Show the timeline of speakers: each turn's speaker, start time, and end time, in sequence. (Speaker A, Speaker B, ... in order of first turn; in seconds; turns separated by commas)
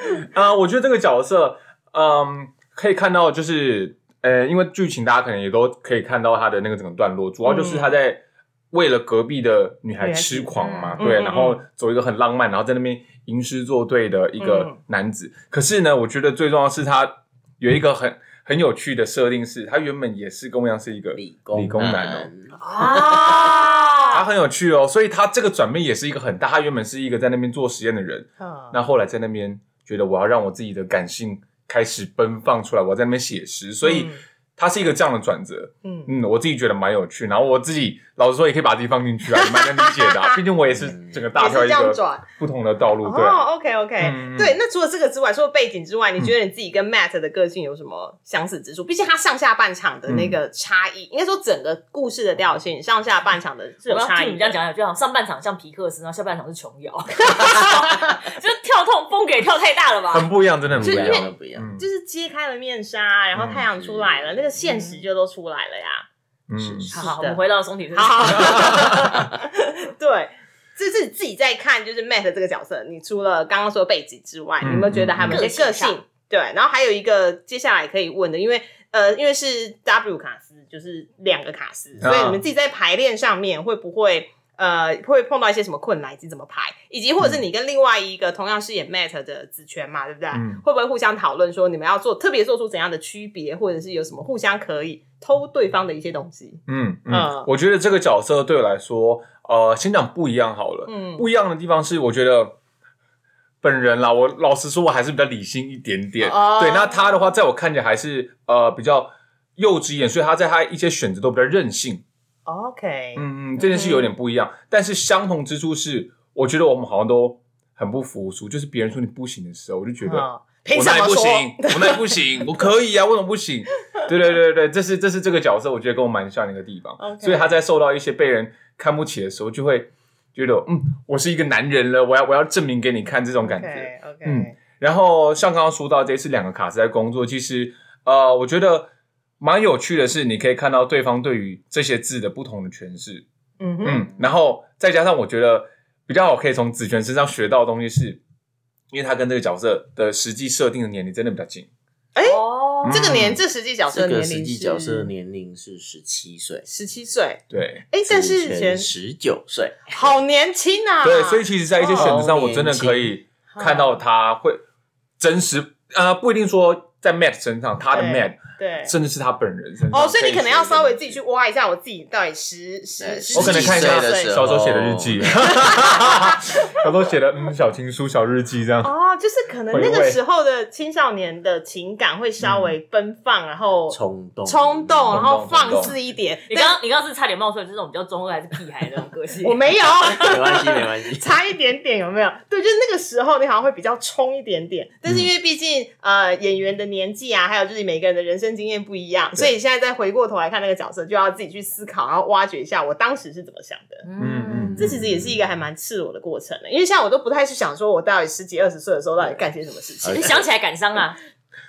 Speaker A: 0.3-22.3, Speaker B: 7.4-7.9, Speaker B: 10.0-11.6, Speaker C: 10.6-11.1, Speaker B: 14.4-14.8, Speaker D: 21.1-23.5, Speaker B: 22.6-24.2, Speaker C: 22.8-24.2, Speaker A: 24.1-43.5, Speaker B: 28.4-28.8, Speaker B: 33.8-34.2, Speaker B: 35.8-36.1, Speaker B: 39.3-40.4, Speaker D: 40.6-41.3, Speaker B: 41.3-42.2, Speaker B: 43.0-54.6, Speaker A: 44.0-44.5, Speaker A: 50.1-50.4, Speaker C: 53.9-60.3, Speaker B: 57.3-58.1, Speaker A: 60.1-61.8, Speaker D: 60.7-61.7, Speaker B: 60.8-66.0, Speaker A: 63.3-63.6, Speaker D: 63.7-64.5, Speaker C: 64.6-65.0, Speaker A: 66.5-66.9, Speaker D: 66.5-66.9, Speaker C: 66.9-69.0, Speaker B: 66.9-67.4, Speaker B: 67.9-97.5, Speaker A: 68.3-69.1, Speaker A: 74.6-75.4, Speaker C: 75.2-76.0, Speaker A: 82.0-82.4, Speaker A: 90.3-90.6, Speaker A: 96.7-102.6, Speaker B: 100.8-101.2, Speaker A: 103.6-112.0, Speaker B: 106.2-107.3, Speaker B: 112.5-114.1, Speaker A: 113.2-138.9, Speaker B: 120.0-122.2, Speaker B: 127.0-127.5, Speaker B: 133.4-134.5, Speaker A: 139.4-143.2, Speaker B: 143.6-144.1, Speaker A: 143.8-148.2, Speaker A: 148.9-151.7, Speaker B: 152.1-155.1, Speaker C: 152.2-153.1, Speaker A: 152.8-153.4, Speaker D: 153.9-156.7, Speaker B: 156.7-158.9, Speaker A: 157.5-157.8, Speaker D: 158.1-160.1, Speaker B: 159.9-162.2, Speaker A: 161.0-164.6, Speaker D: 161.8-163.1, Speaker B: 163.5-164.0, Speaker A: 165.2-171.2, Speaker B: 167.9-168.9, Speaker B: 169.9-174.4, Speaker D: 173.0-175.7, Speaker A: 173.3-178.9, Speaker B: 175.6-176.7, Speaker B: 178.8-186.8, Speaker A: 179.7-180.2, Speaker A: 182.4-182.7, Speaker D: 183.9-185.2, Speaker A: 185.1-185.9, Speaker C: 186.5-189.6, Speaker B: 189.4-204.0, Speaker D: 190.1-191.3, Speaker C: 204.0-204.8, Speaker A: 204.2-205.1, Speaker B: 204.8-210.4, Speaker D: 210.0-210.4, Speaker C: 210.1-211.2